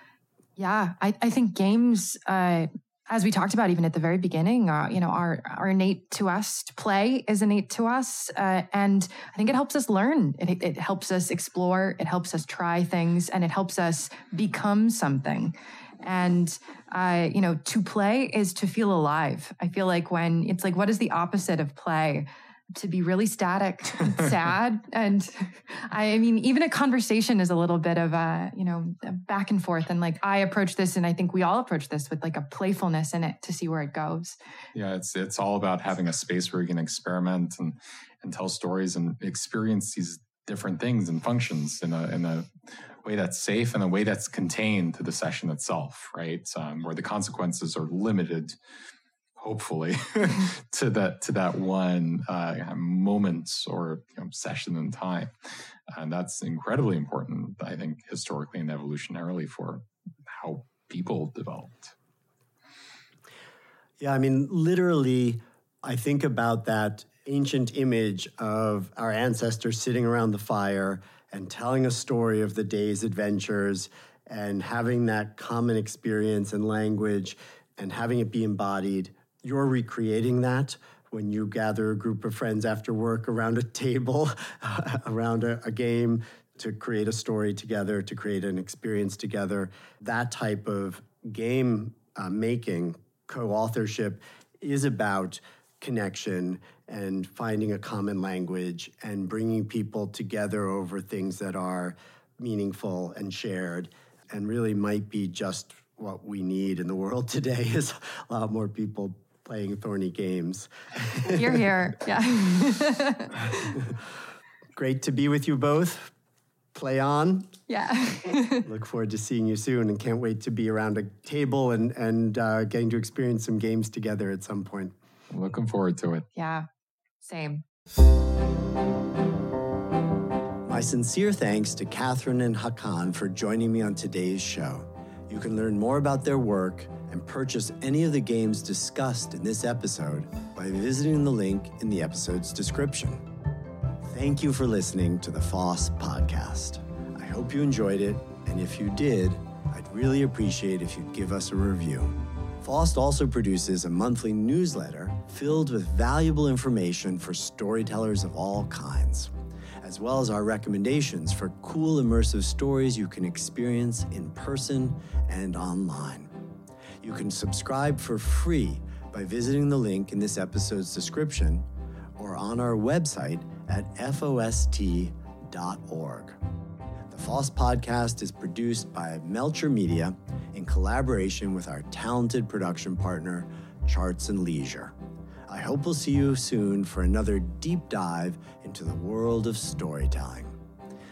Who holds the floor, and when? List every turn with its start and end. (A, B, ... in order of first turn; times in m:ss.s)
0:00.6-0:34.3 A
0:34.7-0:42.5 B
0:43.0-0:48.6 B
0:49.4-0:55.3 B
0:55.9-1:01.9 B
1:04.0-1:51.6 C
1:51.2-1:53.6 A
1:53.6-1:53.9 C
1:54.8-1:56.1 C
1:56.7-1:57.5 C
1:57.7-1:58.6 A
1:58.6-2:04.9 C
2:05.3-2:06.3 B
2:06.3-2:06.7 A
2:07.2-2:07.6 A
2:10.6-2:23.2 C
2:24.0-2:46.3 C
2:47.0-2:51.7 C
2:52.2-2:56.4 C
2:57.1-3:04.9 C
3:05.5-3:10.6 C